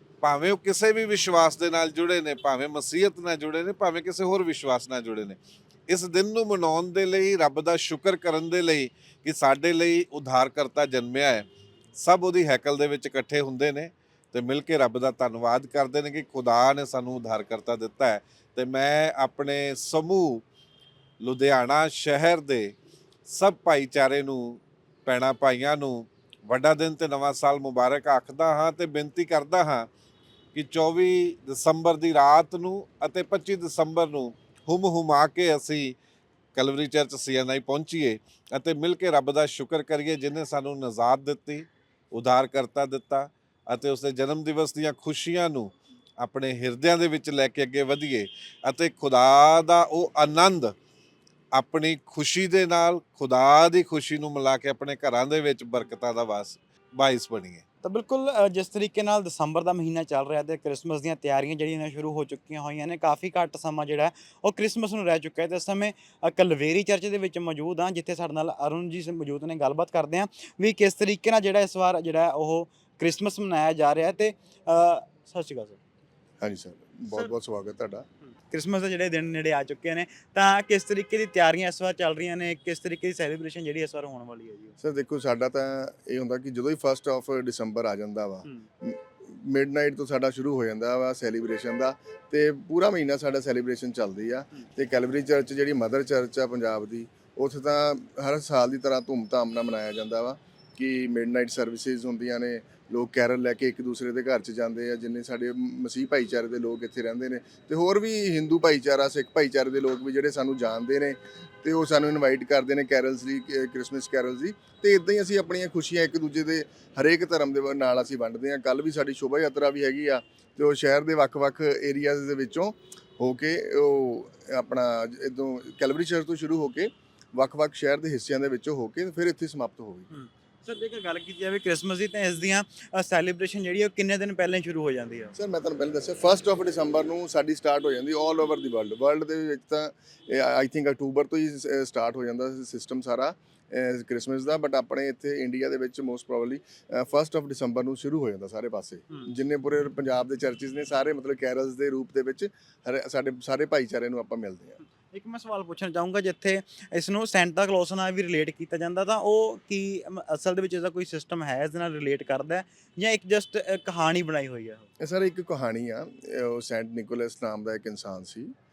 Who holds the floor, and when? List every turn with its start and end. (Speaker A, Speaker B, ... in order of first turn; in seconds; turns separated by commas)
Speaker A: 0.2-20.4, Speaker A: 21.2-22.7, Speaker A: 23.3-29.9, Speaker A: 30.5-36.0, Speaker A: 36.5-50.7, Speaker A: 51.5-57.6, Speaker B: 57.8-75.8, Speaker C: 76.4-78.0, Speaker B: 78.2-84.8, Speaker C: 84.8-130.1, Speaker B: 130.1-135.3, Speaker C: 135.3-154.8, Speaker B: 154.8-164.9, Speaker C: 165.0-168.5